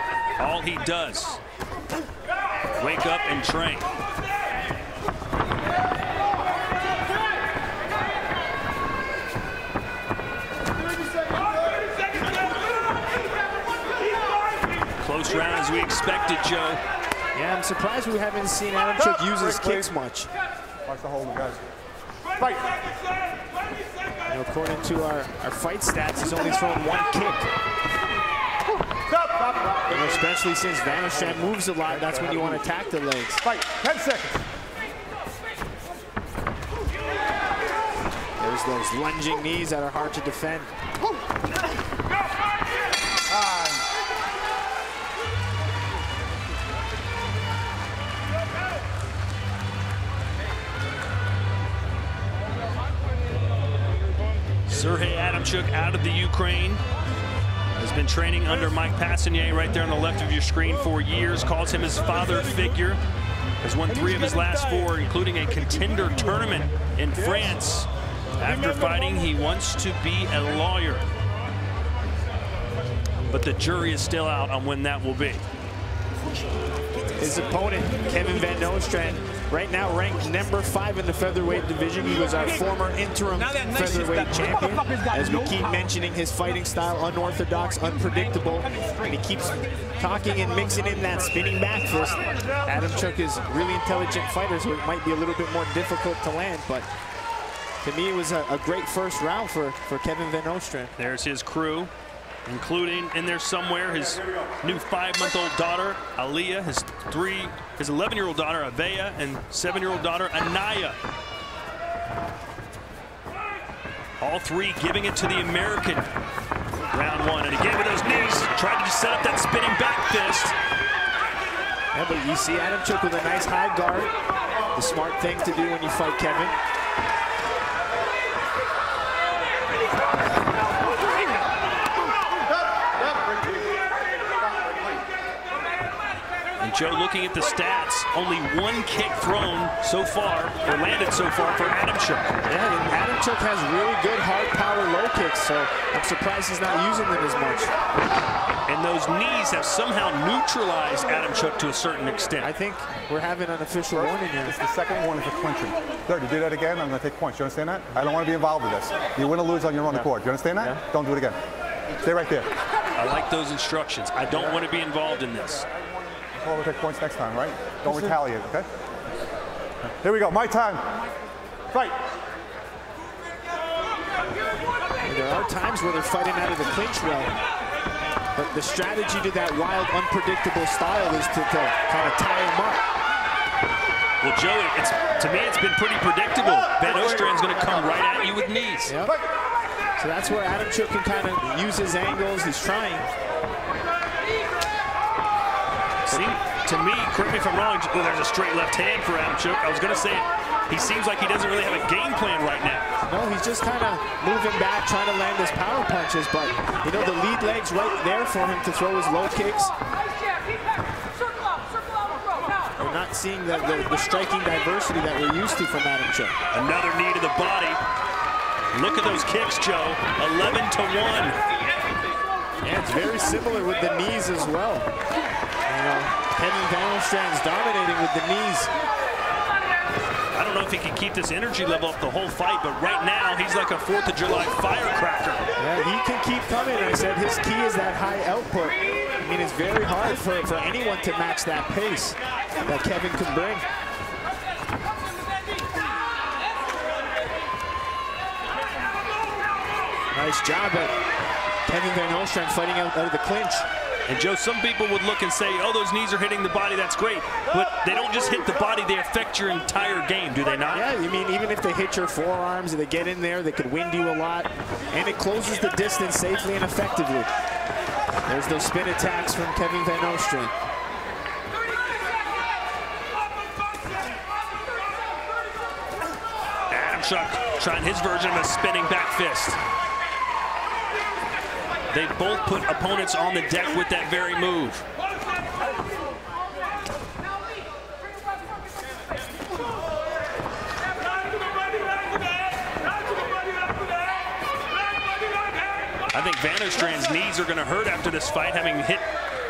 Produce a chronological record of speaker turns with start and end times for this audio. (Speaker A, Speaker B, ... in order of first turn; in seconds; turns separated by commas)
Speaker A: 0.4-1.4, Speaker A: 2.8-3.9, Speaker A: 15.0-16.8, Speaker B: 17.3-20.3, Speaker C: 19.0-19.9, Speaker C: 20.9-21.6, Speaker C: 22.4-22.6, Speaker B: 24.3-27.5, Speaker C: 29.1-30.2, Speaker B: 29.9-33.4, Speaker C: 31.0-32.6, Speaker C: 33.4-34.4, Speaker B: 38.4-40.7, Speaker C: 43.3-43.8, Speaker A: 54.7-56.8, Speaker A: 57.8-63.0, Speaker A: 63.6-71.0, Speaker A: 73.3-75.4, Speaker B: 77.2-96.9, Speaker B: 97.8-100.9, Speaker A: 101.0-101.9, Speaker A: 102.5-111.0, Speaker A: 114.2-116.1, Speaker A: 116.9-120.5, Speaker B: 121.9-124.1, Speaker B: 124.7-126.5, Speaker C: 133.0-133.8, Speaker A: 136.6-142.3, Speaker B: 142.4-147.7, Speaker A: 148.7-152.5, Speaker B: 152.4-154.5, Speaker C: 153.9-161.4, Speaker C: 162.0-162.5, Speaker A: 162.9-165.7, Speaker C: 164.3-164.6, Speaker C: 166.1-168.7, Speaker C: 170.0-170.9, Speaker C: 171.7-172.0, Speaker B: 175.0-177.3, Speaker B: 178.3-182.8, Speaker A: 184.2-188.9, Speaker B: 188.8-189.2, Speaker B: 190.0-193.1, Speaker A: 196.1-202.9, Speaker B: 203.0-209.7, Speaker B: 212.8-216.3, Speaker A: 216.5-217.8, Speaker A: 218.7-221.3, Speaker B: 222.6-224.9, Speaker B: 225.7-228.7, Speaker A: 230.3-235.4, Speaker B: 235.6-243.7, Speaker B: 250.1-250.9, Speaker B: 251.7-253.7, Speaker A: 254.1-260.9, Speaker B: 260.7-267.3, Speaker B: 268.3-270.5, Speaker A: 276.7-279.6, Speaker A: 281.9-284.9, Speaker A: 296.1-299.0